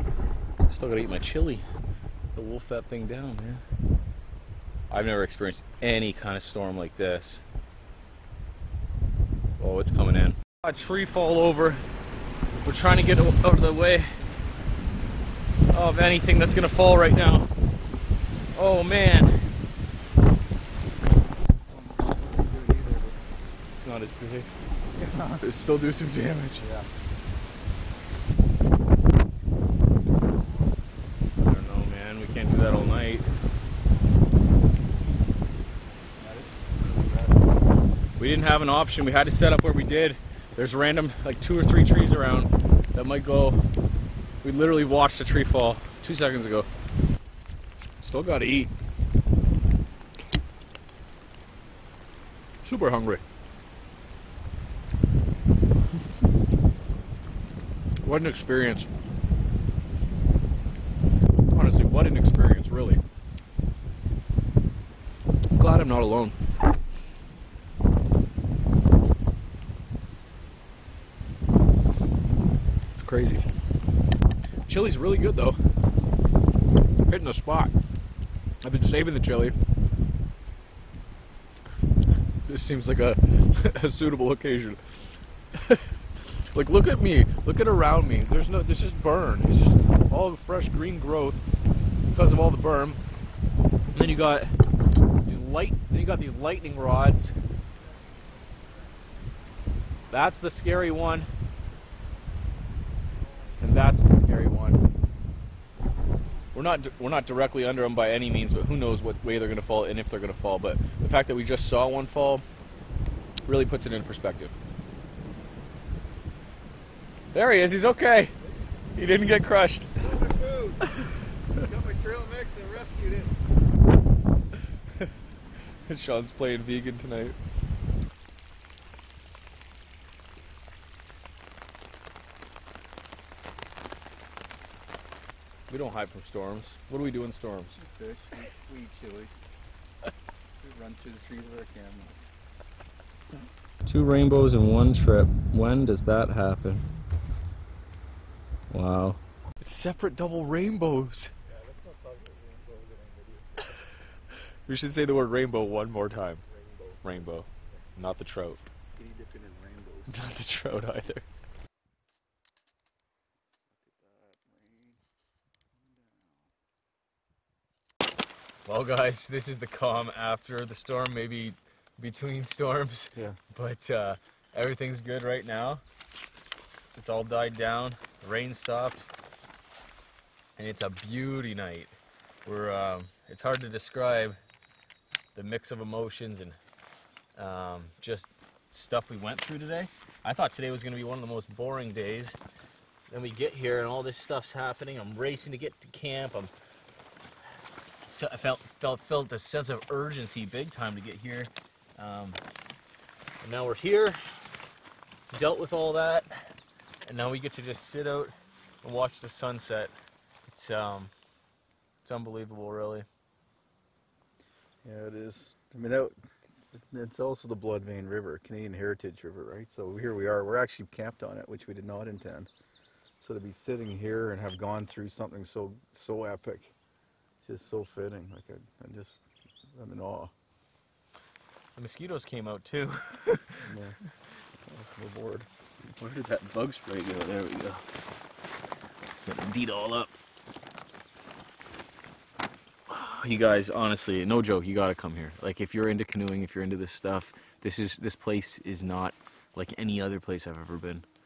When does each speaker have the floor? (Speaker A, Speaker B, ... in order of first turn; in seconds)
Speaker A: 0.7-1.7, 2.3-3.6, 4.9-7.4, 9.6-11.8, 12.6-14.2, 15.7-17.5, 18.5-19.5, 23.8-24.5, 25.4-26.8, 31.4-33.3, 38.2-43.6, 44.4-46.7, 48.0-48.7, 52.6-53.2, 58.0-58.9, 61.5-63.0, 65.6-66.4, 73.0-73.5, 74.7-75.6, 77.1-77.7, 78.6-79.6, 82.5-91.4, 92.1-93.0, 93.9-94.5, 95.2-97.3, 100.1-101.3, 103.6-104.8, 106.5-112.4, 113.5-114.5, 117.3-118.3, 118.9-120.0, 125.7-127.4, 135.7-137.8, 143.8-146.8, 148.7-151.3, 154.3-156.4, 157.0-158.6, 160.1-161.2, 168.7-175.8, 176.9-179.1, 180.6-181.9, 182.4-184.4, 185.3-186.6, 187.4-192.4, 193.1-196.5, 198.1-202.4, 203.4-204.2, 205.3-206.5, 207.0-209.9, 210.4-211.1, 212.0-213.1, 231.8-233.7, 235.8-237.8, 239.2-240.1, 242.9-251.1
Speaker B: 21.7-23.2, 24.9-25.4, 26.6-26.9, 36.0-37.6, 120.0-123.4, 137.8-139.3, 140.6-142.3, 151.4-153.8, 156.5-157.3, 158.8-160.2, 163.8-165.0, 166.0-166.4, 214.8-216.1, 216.7-222.5, 223.2-226.7, 227.4-229.2, 229.8-230.3, 233.6-234.0, 234.6-235.5